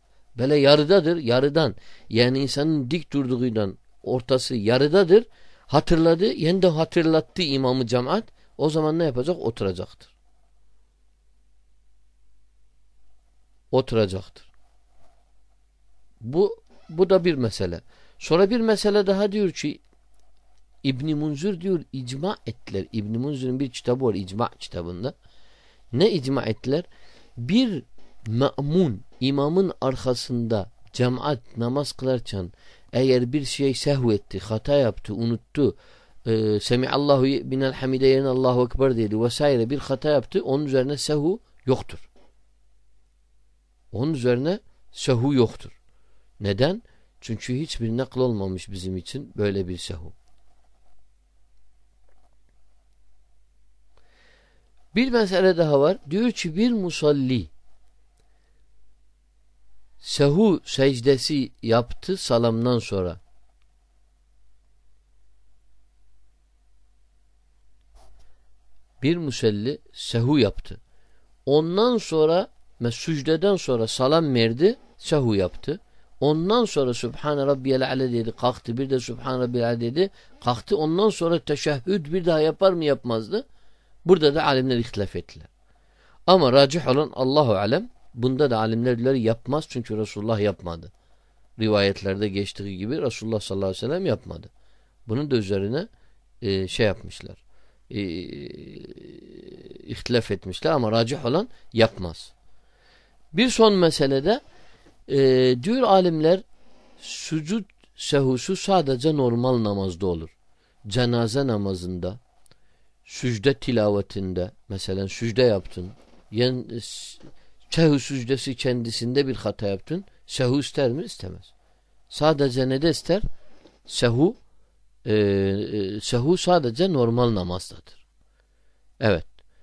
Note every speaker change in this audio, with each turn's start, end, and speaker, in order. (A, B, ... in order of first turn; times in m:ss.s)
0:00.4-0:10.1 A
0:13.7-0:14.5 A
0:16.2-0:19.8 A
0:20.8-0:25.1 A
0:25.9-0:26.9 A
0:27.4-0:35.7 A
0:36.2-0:42.1 A
0:43.9-0:45.8 A
0:46.4-0:50.1 A
0:54.9-0:57.5 A
1:00.0-1:03.2 A
1:09.0-1:10.8 A
1:11.5-1:23.4 A
1:24.0-1:25.5 A
1:26.3-1:30.9 A
1:31.6-1:34.5 A
1:35.1-1:35.9 A
1:36.4-1:42.3 A
1:43.3-1:44.4 A
1:45.1-1:46.4 A
1:47.0-1:50.3 A
1:50.9-1:52.2 A
1:53.0-2:01.5 A
2:02.1-2:03.2 A
2:03.9-2:04.4 A
2:05.0-2:08.0 A
2:09.0-2:09.3 A